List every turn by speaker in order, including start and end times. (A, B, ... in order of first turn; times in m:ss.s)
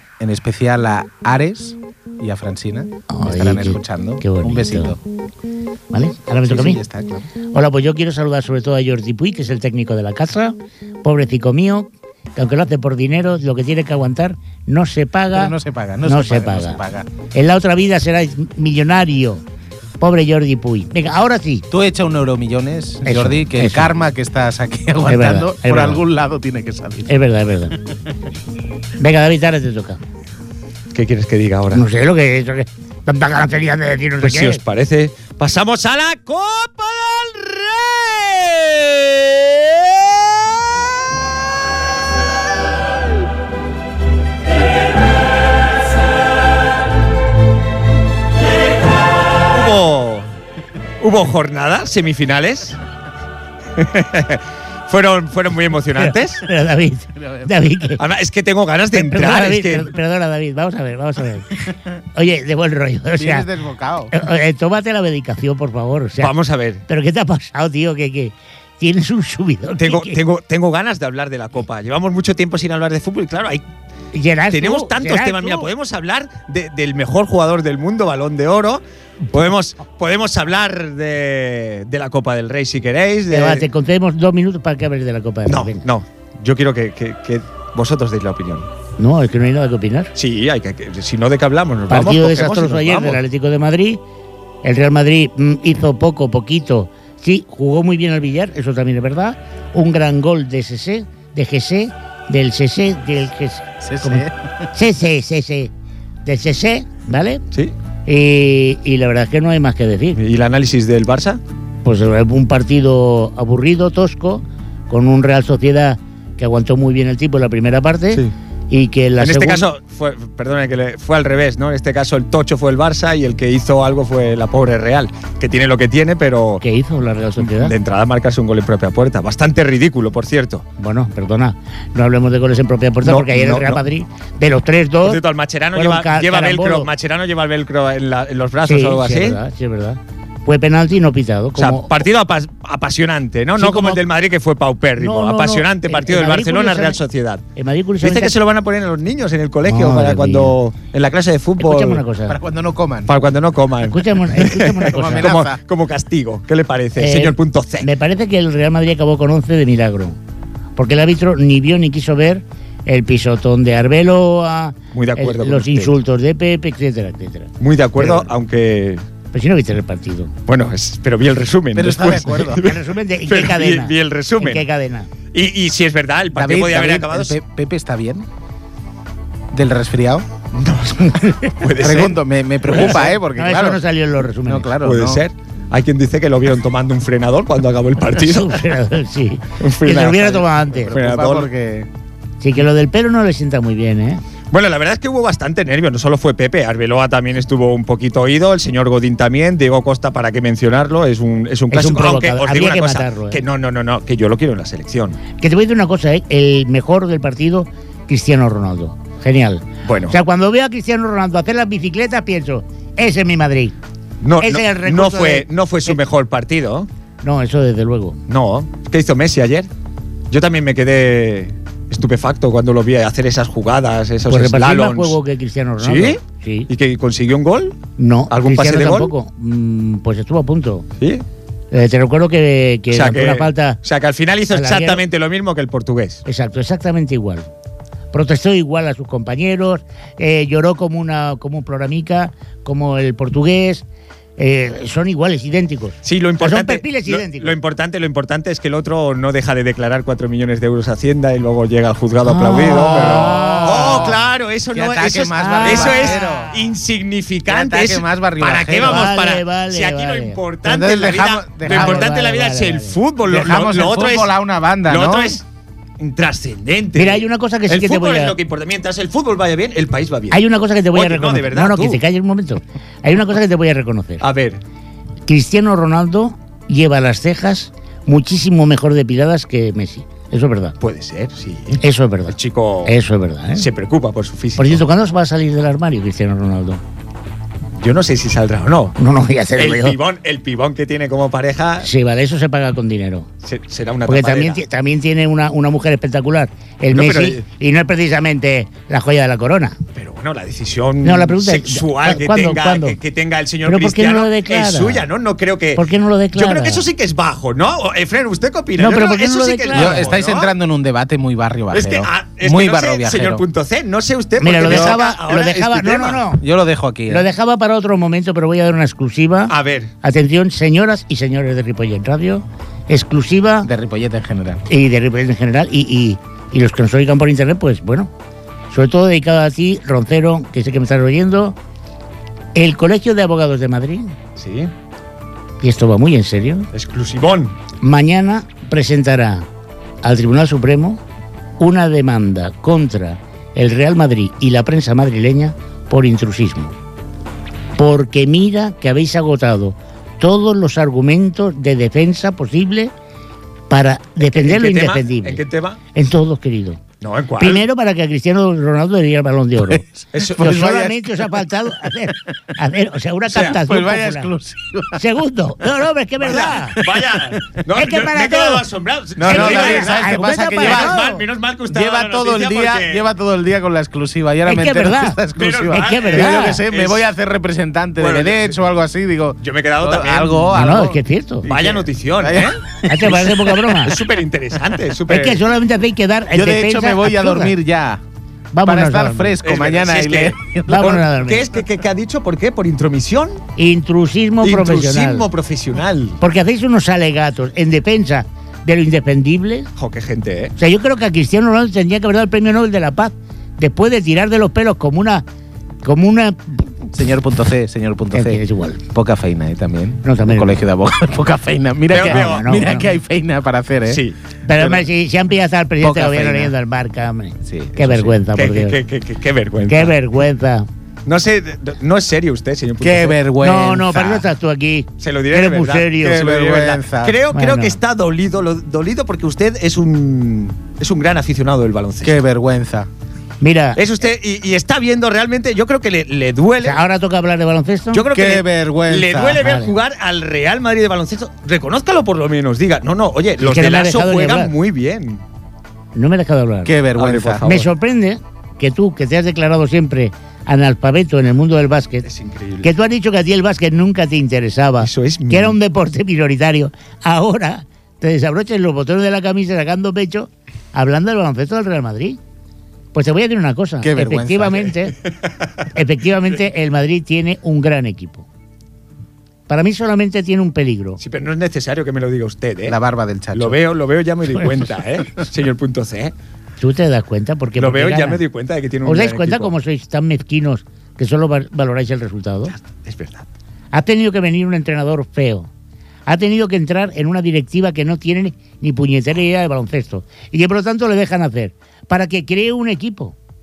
0:00.2-0:05.0 A
0:03.1-0:04.9 B
0:05.9-0:06.8 B
0:06.4-0:07.3 A
0:07.5-0:19.4 B
0:15.3-0:17.1 A
0:20.0-0:21.6 B
0:21.7-0:27.1 A
0:23.0-0:23.9 B
0:25.0-0:26.0 B
0:27.0-0:27.8 B
0:29.0-0:30.0 B
0:30.9-0:31.8 C
0:31.7-0:34.6 B
0:34.2-0:40.6 C
0:49.5-0:50.3 C
0:51.0-0:52.8 C
0:53.8-0:56.4 C
0:56.0-0:58.0 B
0:57.2-0:57.5 A
0:58.0-0:59.9 C
0:58.9-1:03.5 B
1:03.1-1:04.1 A
1:04.1-1:06.3 B
1:06.2-1:06.8 C
1:06.9-1:10.2 B
1:09.8-1:13.6 C
1:14.1-1:15.7 B
1:14.5-1:23.6 C
1:23.3-1:25.8 B
1:25.4-1:28.7 C
1:29.0-1:30.1 B
1:30.1-1:33.2 C
1:31.9-1:34.0 B
1:34.6-1:45.7 B
1:43.8-1:44.6 A
1:46.2-1:47.4 B
1:48.0-1:50.2 B
1:50.2-1:51.4 C
1:51.8-1:59.7 B
1:59.2-2:06.6 C
2:06.6-2:07.7 B
2:07.4-2:10.6 C
2:10.8-2:15.2 B
2:13.0-2:13.8 C
2:15.0-2:19.4 C
2:15.7-2:16.9 B
2:18.6-2:22.0 B
2:21.6-2:27.4 C
2:23.6-2:24.0 B
2:25.0-2:27.0 B
2:27.5-2:28.3 B
2:28.0-2:32.0 C
2:29.6-2:30.6 B
2:31.6-2:32.4 B
2:32.3-2:33.1 A
2:33.1-2:37.9 C
2:33.8-2:35.4 B
2:34.8-2:35.6 A
2:37.0-2:40.2 B
2:40.8-2:48.3 B
2:44.9-2:46.0 C
2:47.6-2:49.0 C
2:49.3-2:50.3 B
2:50.5-2:54.6 C
2:51.7-2:52.7 A
2:52.5-2:55.1 B
2:55.3-2:57.4 C
2:56.3-2:58.3 A
2:59.5-3:00.3 A
3:00.5-3:03.1 C
3:01.8-3:03.8 A
3:02.7-3:04.7 B
3:04.4-3:05.2 A
3:04.8-3:08.6 C
3:08.1-3:11.0 B
3:09.6-3:10.3 C
3:10.1-3:11.9 A
3:10.9-3:11.5 C
3:12.4-3:14.2 B
3:14.5-3:25.2 C
3:21.7-3:23.4 B
3:25.4-3:33.7 B
3:29.8-3:30.1 C
3:34.2-3:36.9 C
3:34.4-3:36.0 B
3:37.2-3:38.2 B
3:38.3-3:39.7 C
3:40.3-3:45.2 C
3:44.3-3:46.7 B
3:45.8-3:47.8 C
3:48.0-3:50.9 B
3:48.3-3:49.1 C
3:51.7-3:53.8 B
3:52.9-3:56.2 C
3:54.5-3:55.0 B
3:56.2-3:57.5 B
3:58.1-4:03.8 B
4:04.4-4:07.6 B
4:06.0-4:24.3 C
4:12.2-4:14.2 B
4:12.7-4:14.2 A
4:14.7-4:16.6 A
4:15.4-4:16.7 B
4:17.5-4:19.1 A
4:18.7-4:20.4 B
4:20.6-4:22.1 A
4:21.6-4:23.0 B
4:23.3-4:25.4 A
4:24.9-4:25.4 C
4:26.0-4:30.4 C
4:27.0-4:28.4 B
4:30.3-4:34.2 B
4:30.9-4:32.0 C
4:34.2-4:34.6 C
4:35.3-4:40.7 B
4:40.8-4:42.9 C
4:41.8-4:43.6 B
4:43.6-4:44.8 C
4:44.6-4:46.8 B
4:47.8-4:49.0 C
4:49.0-4:50.0 B
4:49.6-4:51.9 C
4:51.8-4:53.3 B
4:53.4-4:54.6 C
4:54.0-4:59.8 B
4:56.9-4:57.4 C
4:59.9-5:05.8 C
5:01.0-5:03.0 B
5:03.6-5:05.0 B
5:05.8-5:06.8 B
5:06.4-5:10.5 C
5:08.8-5:10.1 B
5:09.7-5:13.4 A
5:11.7-5:16.2 C
5:14.4-5:16.4 B
5:14.6-5:15.0 A
5:16.4-5:17.2 A
5:17.1-5:23.7 B
5:19.5-5:19.9 C
5:23.6-5:24.6 A
5:24.7-5:28.1 B
5:28.7-5:31.6 B
5:32.5-5:34.2 B
5:34.4-5:34.7 C
5:35.6-5:36.7 B
5:36.7-5:37.6 C
5:37.8-5:39.5 B
5:40.0-5:41.0 B
5:41.6-5:46.7 B
5:47.8-5:52.9 B
5:53.7-5:55.4 B
5:54.4-5:55.8 C
5:55.9-5:56.8 B
5:57.0-5:57.6 C
5:57.4-6:04.3 B
5:59.6-6:00.9 A
6:00.1-6:00.9 C
6:03.3-6:03.6 C
6:03.5-6:05.0 A
6:04.9-6:06.8 B
6:06.2-6:13.1 C
6:06.8-6:07.4 A
6:07.7-6:08.6 B
6:09.2-6:11.0 A
6:09.2-6:11.2 B
6:11.7-6:23.5 A
6:14.4-6:16.6 B
6:15.3-6:17.0 C
6:18.0-6:18.6 C
6:19.4-6:20.5 C
6:20.5-6:21.5 B
6:21.4-6:25.4 C
6:22.8-6:24.0 B
6:25.1-6:27.6 B
6:26.3-6:28.0 A
6:28.5-6:29.4 B
6:28.6-6:31.0 A
6:29.4-6:33.4 C
6:30.7-6:31.5 B
6:33.6-6:35.2 B
6:34.4-6:36.2 C
6:36.2-6:39.7 B
6:39.8-6:40.5 C
6:40.6-6:45.2 B
6:45.8-6:46.7 B
6:46.9-6:54.0 A
6:48.1-6:48.8 B
6:50.0-6:50.6 B
6:51.9-6:52.7 C
6:51.9-6:52.9 B
6:53.9-6:54.2 C
6:54.4-6:58.8 B
6:54.6-6:54.8 A
6:55.8-6:56.5 A
6:57.4-6:58.2 A
6:58.3-6:59.9 C
6:59.7-7:00.7 B
7:01.0-7:03.2 C
7:02.8-7:04.3 A
7:03.4-7:06.3 B
7:05.0-7:12.2 C
7:06.1-7:07.2 A
7:07.3-7:07.8 B
7:12.0-7:12.9 A
7:13.4-7:13.8 B
7:13.8-7:16.8 C
7:16.6-7:18.0 B
7:17.9-7:25.2 C
7:18.1-7:19.4 A
7:19.4-7:19.7 B
7:23.4-7:24.5 B
7:25.9-7:26.7 B
7:26.6-7:27.4 A
7:26.9-7:27.7 C
7:27.4-7:32.0 B
7:32.0-7:32.7 C
7:32.6-7:42.2 B
7:34.8-7:35.6 C
7:42.9-7:45.0 B
7:43.8-7:44.7 A
7:45.7-7:48.3 B
7:49.5-7:51.0 B
7:51.0-7:52.8 C
7:52.6-7:53.6 A
7:53.3-7:56.1 C
7:54.4-7:54.7 B
7:56.6-7:58.2 B
7:57.6-7:59.5 C
7:58.8-8:02.5 B
8:02.5-8:03.3 C
8:03.7-8:05.5 B
8:06.1-8:13.2 B